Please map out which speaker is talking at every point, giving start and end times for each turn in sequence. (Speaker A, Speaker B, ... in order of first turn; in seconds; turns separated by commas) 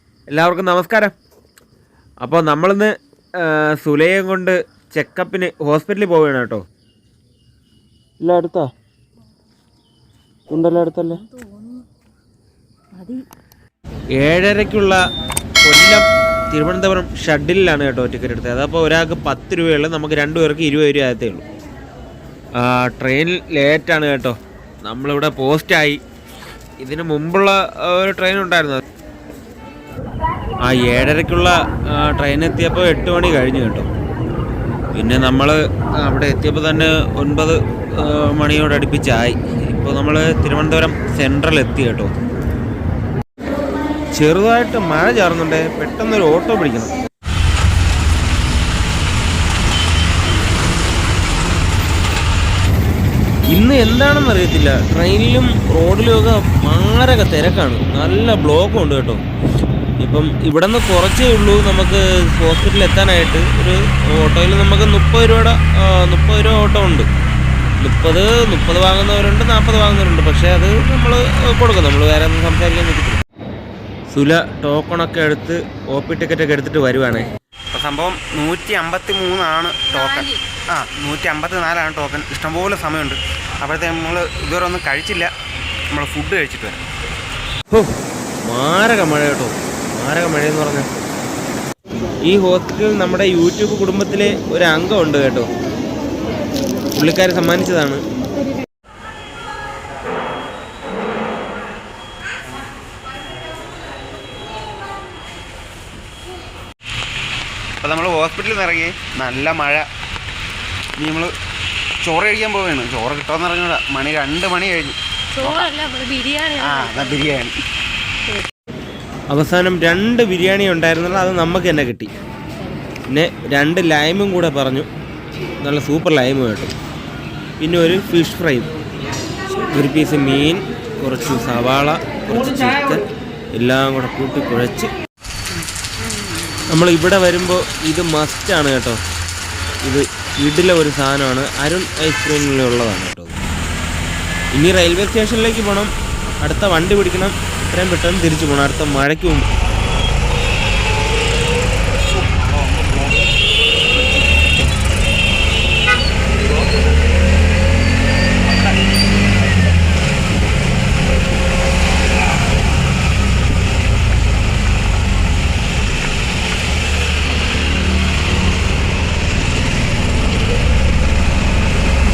Speaker A: 0.3-1.1, Speaker A: 2.2-6.6, Speaker A: 8.2-8.7, Speaker A: 10.5-11.2, Speaker B: 11.5-11.8, Speaker B: 13.0-13.2, Speaker A: 14.2-15.0, Speaker A: 15.6-21.4, Speaker A: 22.6-26.0, Speaker A: 26.8-28.8, Speaker A: 30.6-33.9, Speaker A: 34.9-42.1, Speaker A: 44.1-46.9, Speaker A: 53.5-59.2, Speaker A: 60.0-67.1, Speaker A: 67.8-73.2, Speaker A: 74.1-77.3, Speaker C: 77.7-85.3, Speaker C: 85.9-86.8, Speaker A: 88.4-90.9, Speaker A: 92.2-95.5, Speaker A: 96.9-98.0, Speaker C: 107.8-109.9, Speaker C: 111.0-111.3, Speaker C: 112.0-115.7, Speaker B: 115.3-117.2, Speaker C: 116.6-117.5, Speaker A: 119.3-122.1, Speaker A: 123.1-124.9, Speaker A: 125.6-126.7, Speaker A: 127.6-128.7, Speaker A: 129.6-133.1, Speaker A: 133.6-134.9, Speaker A: 136.7-139.0, Speaker A: 139.8-143.4, Speaker A: 144.5-145.9, Speaker A: 146.4-149.4, Speaker C: 152.6-152.9